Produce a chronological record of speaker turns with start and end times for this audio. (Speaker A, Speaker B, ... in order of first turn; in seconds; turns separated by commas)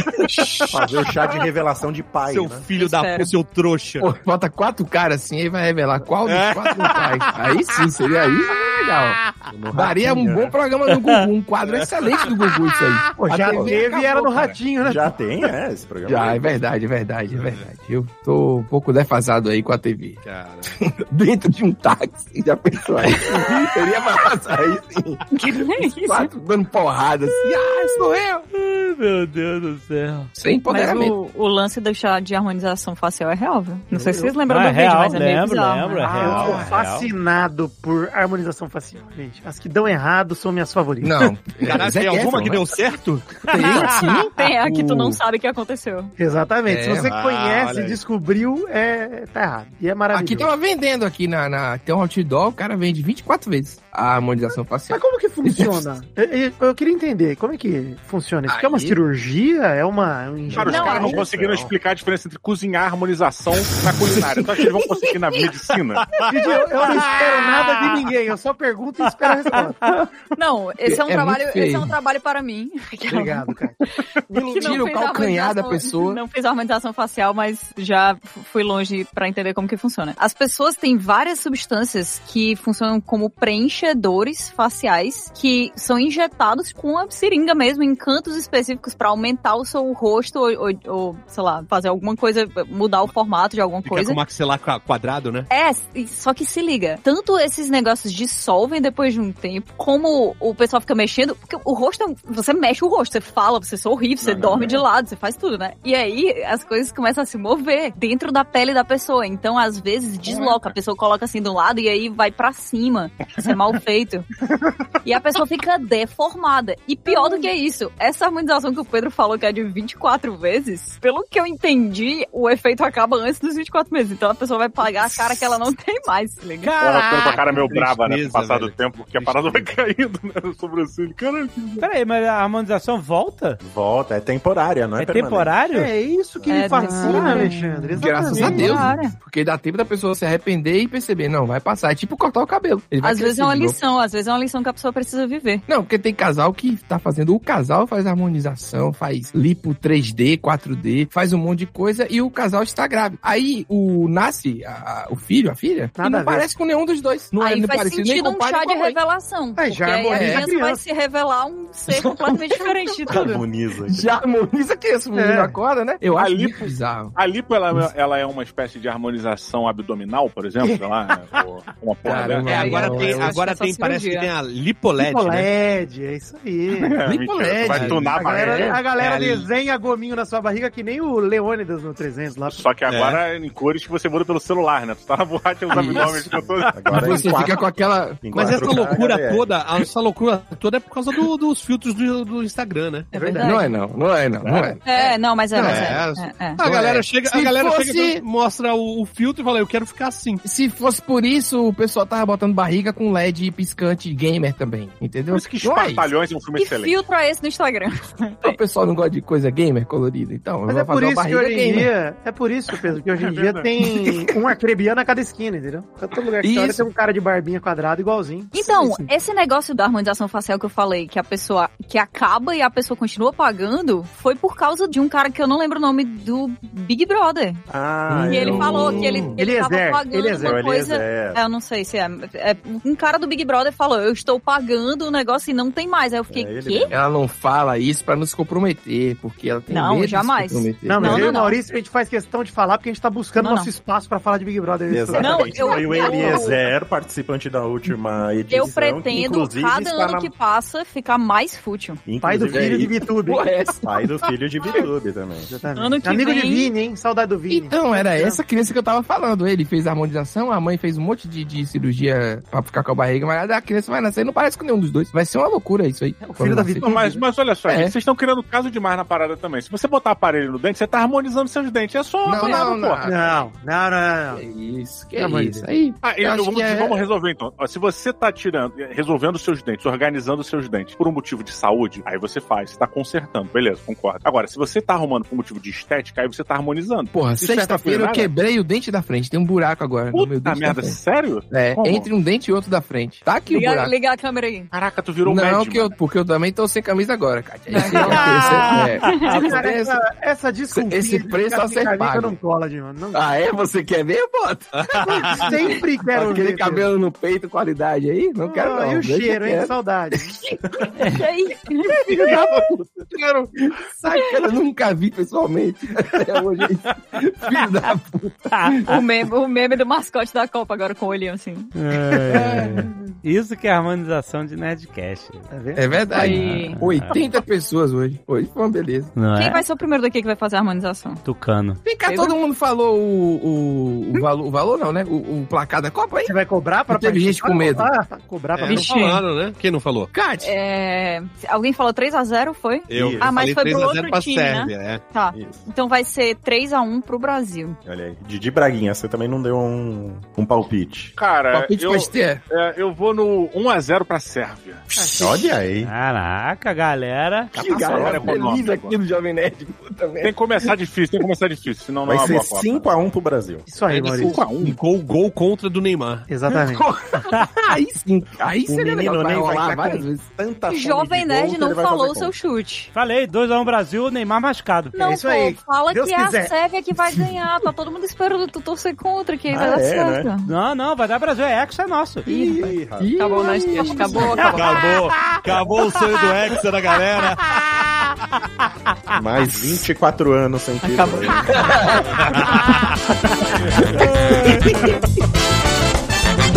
Speaker A: 0.4-0.7, Speaker B: 0.7-2.7, Speaker A: 2.2-4.1, Speaker C: 2.8-3.3, Speaker D: 4.0-9.2, Speaker A: 6.2-7.0, Speaker A: 9.5-10.3, Speaker D: 9.7-14.5, Speaker B: 10.1-10.5, Speaker E: 10.9-11.2, Speaker A: 11.7-12.2, Speaker F: 13.2-15.1, Speaker G: 14.0-14.5, Speaker B: 14.8-16.6, Speaker D: 16.1-28.4, Speaker A: 17.3-17.7, Speaker A: 20.2-20.8, Speaker C: 25.3-26.3, Speaker E: 28.5-30.3, Speaker D: 30.4-31.1, Speaker C: 30.7-36.6, Speaker F: 33.9-34.4, Speaker E: 34.5-37.1, Speaker F: 36.0-41.3, Speaker D: 41.0-42.7, Speaker A: 41.6-43.5, Speaker D: 43.5-45.2, Speaker C: 43.6-46.1, Speaker F: 46.2-50.5, Speaker A: 46.6-48.0, Speaker D: 50.1-55.9, Speaker F: 54.9-61.2, Speaker D: 58.5-59.0, Speaker D: 60.5-61.1, Speaker G: 60.5-66.1, Speaker C: 60.6-61.2, Speaker B: 60.6-61.7, Speaker D: 63.9-65.0, Speaker F: 66.3-69.8, Speaker C: 70.3-73.4, Speaker D: 70.8-72.0, Speaker F: 73.1-73.8, Speaker D: 74.3-76.2, Speaker C: 74.4-94.2, Speaker A: 93.8-95.5, Speaker C: 95.5-114.2, Speaker G: 104.2-104.8, Speaker G: 110.2-110.6, Speaker G: 114.4-114.9, Speaker C: 115.0-126.7, Speaker F: 117.1-117.4, Speaker E: 126.6-127.4, Speaker G: 126.8-131.7, Speaker A: 127.4-129.7, Speaker E: 131.8-133.6, Speaker B: 133.6-135.6, Speaker E: 135.0-135.9, Speaker F: 135.6-138.8, Speaker B: 136.4-136.8, Speaker C: 136.5-137.6, Speaker E: 137.1-137.8, Speaker D: 138.0-143.8, Speaker A: 138.3-138.7, Speaker C: 138.3-139.2, Speaker C: 143.0-145.6, Speaker D: 145.7-159.0, Speaker F: 156.0-156.5, Speaker C: 157.4-163.4, Speaker F: 159.6-160.8, Speaker D: 160.1-160.5, Speaker D: 161.9-163.3, Speaker B: 163.1-164.1, Speaker D: 163.9-167.1, Speaker F: 165.1-165.6, Speaker G: 166.1-172.6, Speaker F: 170.6-171.4, Speaker D: 172.0-173.4, Speaker C: 172.4-174.3, Speaker A: 172.4-175.5, Speaker F: 175.0-177.0, Speaker G: 176.7-178.8, Speaker D: 177.1-178.8, Speaker A: 177.7-178.1, Speaker F: 178.1-182.7, Speaker A: 179.0-179.4, Speaker G: 182.5-187.1, Speaker A: 182.9-183.2, Speaker A: 185.7-186.6, Speaker D: 185.7-186.2, Speaker B: 186.7-189.5, Speaker D: 186.9-188.8, Speaker A: 188.3-193.1, Speaker C: 193.1-193.7, Speaker F: 193.1-193.6, Speaker D: 193.4-194.8, Speaker A: 194.4-194.8, Speaker C: 194.8-196.6, Speaker D: 195.5-198.2, Speaker A: 195.5-200.4, Speaker D: 200.4-206.1, Speaker G: 205.3-206.9, Speaker C: 206.6-208.6, Speaker D: 208.4-211.9, Speaker F: 210.7-219.1, Speaker G: 213.2-213.7, Speaker D: 216.4-216.9, Speaker C: 218.5-227.6, Speaker B: 227.7-229.4, Speaker D: 228.1-229.4, Speaker C: 228.3-236.9, Speaker F: 229.3-230.7, Speaker B: 230.4-231.4, Speaker B: 236.3-237.0, Speaker D: 236.9-241.5, Speaker C: 239.7-241.6, Speaker F: 240.8-246.6, Speaker C: 243.4-243.7, Speaker B: 244.9-250.3, Speaker C: 245.2-246.6, Speaker C: 248.5-252.0, Speaker B: 252.0-253.0, Speaker F: 252.2-253.6, Speaker D: 252.5-253.9, Speaker B: 253.8-255.5, Speaker F: 255.5-258.4, Speaker C: 255.8-256.7, Speaker D: 257.5-267.0, Speaker F: 266.2-267.2, Speaker G: 266.8-273.1, Speaker D: 272.2-273.4, Speaker C: 272.3-272.7, Speaker F: 273.0-274.4, Speaker D: 274.3-277.0, Speaker F: 275.1-275.7, Speaker G: 276.0-288.3, Speaker D: 287.1-293.9, Speaker G: 290.1-292.1, Speaker C: 293.5-294.7, Speaker G: 294.7-295.9, Speaker D: 295.2-300.0, Speaker C: 297.7-299.5, Speaker F: 298.0-298.8, Speaker E: 298.1-299.3, Speaker F: 299.3-303.3, Speaker D: 300.7-302.4, Speaker D: 303.1-310.8, Speaker A: 304.7-305.5, Speaker F: 305.0-306.9, Speaker F: 308.4-310.4, Speaker E: 311.0-311.2, Speaker C: 311.0-312.0, Speaker D: 312.0-313.5, Speaker D: 314.0-319.0, Speaker E: 318.5-318.9, Speaker C: 318.8-321.7, Speaker E: 321.7-325.4, Speaker F: 322.1-322.5, Speaker D: 322.3-322.9, Speaker F: 325.5-326.0, Speaker D: 325.7-329.1, Speaker C: 326.1-326.8, Speaker E: 326.2-327.2, Speaker E: 329.1-329.6, Speaker C: 329.3-331.2, Speaker E: 331.2-331.8, Speaker D: 331.8-336.4, Speaker C: 332.1-332.4, Speaker F: 336.2-339.1, Speaker D: 336.9-337.9, Speaker A: 338.6-340.1, Speaker C: 338.7-339.2, Speaker D: 340.1-340.5, Speaker C: 340.4-347.8, Speaker A: 342.9-345.0, Speaker B: 342.9-343.3, Speaker B: 345.3-345.7, Speaker B: 347.8-351.1, Speaker G: 351.1-354.9, Speaker D: 351.5-352.4, Speaker F: 354.9-355.5, Speaker B: 355.2-355.9, Speaker E: 355.8-357.6, Speaker B: 357.5-358.6, Speaker D: 357.6-360.6, Speaker G: 357.6-359.0, Speaker G: 360.2-362.9, Speaker B: 362.1-363.7, Speaker F: 363.6-364.5, Speaker G: 363.9-364.8, Speaker A: 363.9-366.3, Speaker F: 366.3-366.9, Speaker D: 366.6-370.3, Speaker B: 368.4-372.3, Speaker C: 370.7-372.9, Speaker E: 372.9-374.9, Speaker C: 374.9-380.5, Speaker F: 375.0-376.5, Speaker B: 379.5-380.3, Speaker E: 380.4-382.3, Speaker B: 382.3-384.3, Speaker C: 382.3-385.1, Speaker D: 383.0-384.4, Speaker A: 384.5-387.7, Speaker B: 389.1-392.0, Speaker C: 390.8-392.0, Speaker D: 391.6-392.0, Speaker D: 394.0-394.8